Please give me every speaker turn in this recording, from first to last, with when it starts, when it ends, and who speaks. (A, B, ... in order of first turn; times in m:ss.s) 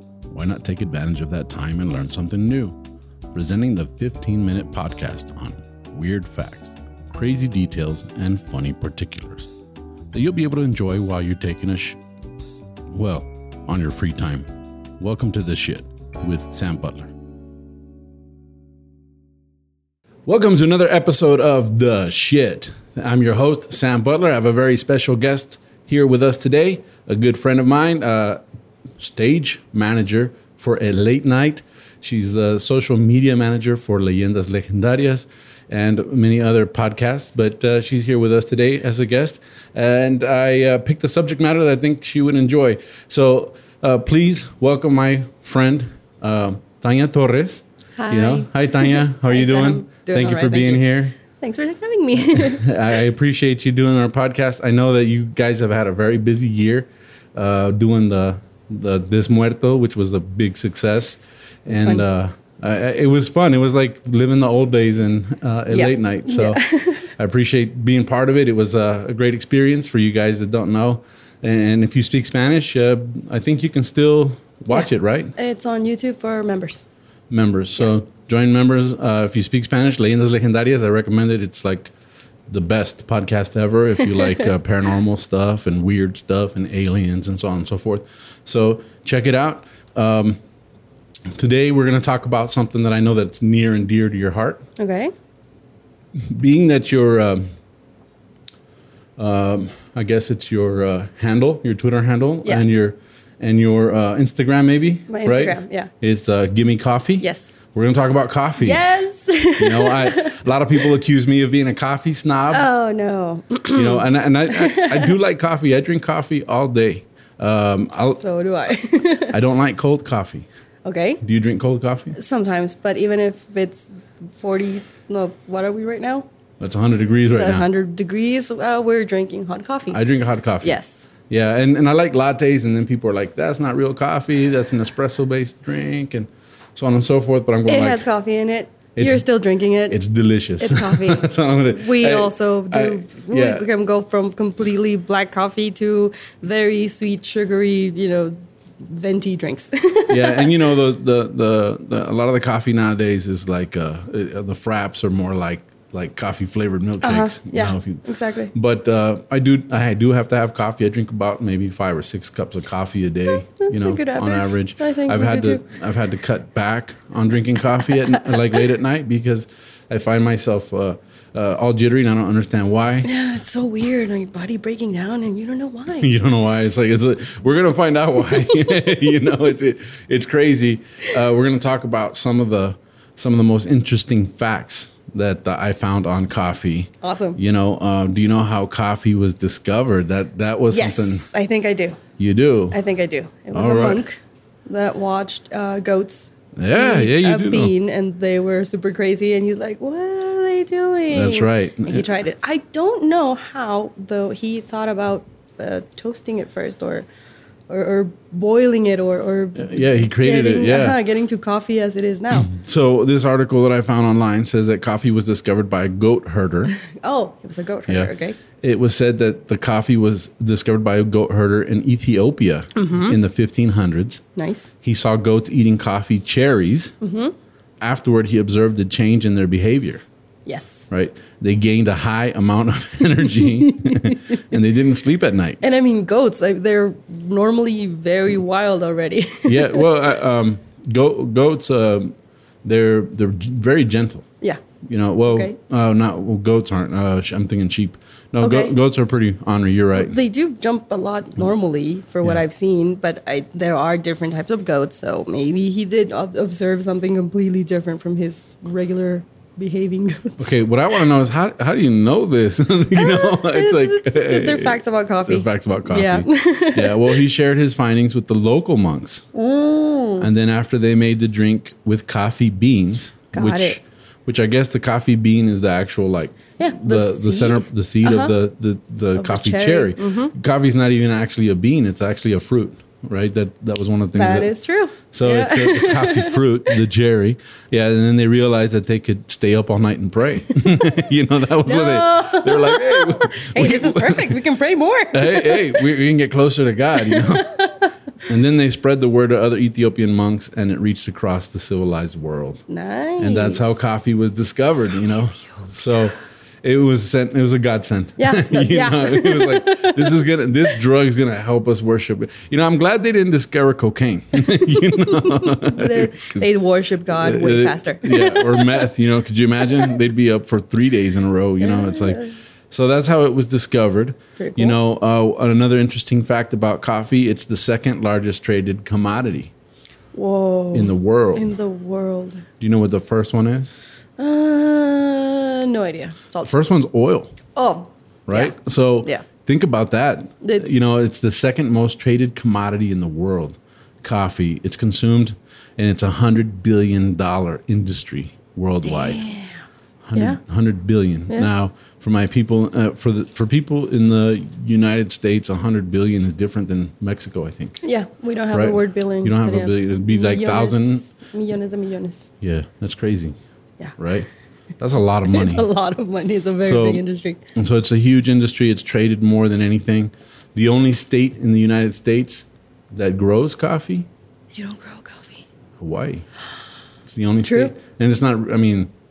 0:00.3-0:02.8 A
0:03.3-0:09.5 A
0:10.1-0:12.0 A
0:12.9-0:14.5 A
0:15.0-0:17.1 A
0:20.2-0:28.4 A
0:29.0-0:51.2 A
0:48.0-0:52.6 B
0:52.3-1:15.3 A
1:01.7-1:02.0 B
1:05.7-1:07.1 B
1:14.7-1:16.8 B
1:17.3-1:21.9 A
1:22.5-1:30.4 A
1:31.4-1:34.6 A
1:34.8-1:35.1 B
1:36.2-1:37.4 A
1:39.2-1:48.8 A
1:45.1-1:45.9 B
1:47.2-1:47.6 B
1:48.6-1:50.4 B
1:49.6-1:52.6 A
1:52.5-1:55.1 B
1:53.7-1:58.2 A
1:57.9-1:59.4 B
1:59.3-2:00.4 A
2:00.8-2:01.2 B
2:01.2-2:02.1 A
2:02.1-2:06.3 B
2:06.6-2:07.7 A
2:07.3-2:10.0 B
2:09.9-2:18.0 A
2:10.6-2:11.1 B
2:17.7-2:20.0 B
2:19.0-2:19.2 A
2:19.9-2:23.6 A
2:20.6-2:30.7 B
2:30.1-2:53.1 A
2:37.0-2:38.5 B
2:43.3-2:45.6 B
2:53.0-2:56.1 B
2:55.9-3:11.3 A
3:07.0-3:07.4 B
3:10.7-3:12.0 B
3:12.2-3:12.8 A
3:12.7-3:27.1 B
3:13.5-3:14.0 A
3:16.6-3:17.7 A
3:21.1-3:22.1 A
3:27.7-3:32.5 B
3:29.6-3:31.0 A
3:32.3-3:36.8 A
3:36.8-3:38.4 B
3:37.9-3:44.2 A
3:42.8-3:43.1 B
3:44.4-3:44.7 B
3:44.8-3:46.9 A
3:47.0-3:47.3 B
3:47.8-3:50.0 A
3:50.4-3:50.9 B
3:50.9-3:55.6 A
3:53.8-3:54.2 B
3:55.6-3:59.8 B
3:59.4-4:04.2 A
4:04.9-4:10.2 A
4:05.2-4:05.5 B
4:08.4-4:08.7 B
4:09.9-4:20.5 B
4:20.4-4:29.3 A
4:22.9-4:27.2 B
4:29.3-4:30.2 B
4:30.2-4:44.5 A
4:33.3-4:33.8 B
4:36.6-4:38.4 B
4:39.1-4:40.3 B
4:44.1-4:46.8 B
4:45.1-4:54.4 A
4:51.6-4:55.9 B
4:55.1-4:57.6 A
4:57.0-4:57.9 B
4:58.2-5:02.6 A
5:02.7-5:03.8 B
5:03.2-5:16.5 A
5:08.2-5:10.2 B
5:15.2-5:18.8 B
5:17.1-5:29.5 A
5:21.6-5:22.3 B
5:24.4-5:24.8 B
5:30.1-5:32.4 B
5:30.7-5:31.5 A
5:32.6-5:33.7 A
5:34.2-5:36.5 B
5:36.4-5:37.4 A
5:37.5-5:39.2 B
5:38.3-5:49.2 A
5:40.4-5:40.7 B
5:48.8-5:49.6 B
5:50.0-5:57.8 A
5:57.8-6:02.3 B
5:58.5-6:01.1 A
6:02.4-6:03.3 A
6:04.0-6:04.3 A
6:04.8-6:05.7 A
6:05.3-6:07.4 B
6:06.6-6:07.0 A
6:07.5-6:14.1 A
6:14.5-6:15.4 B
6:15.8-6:16.2 A
6:17.0-6:18.9 A
6:17.4-6:17.7 B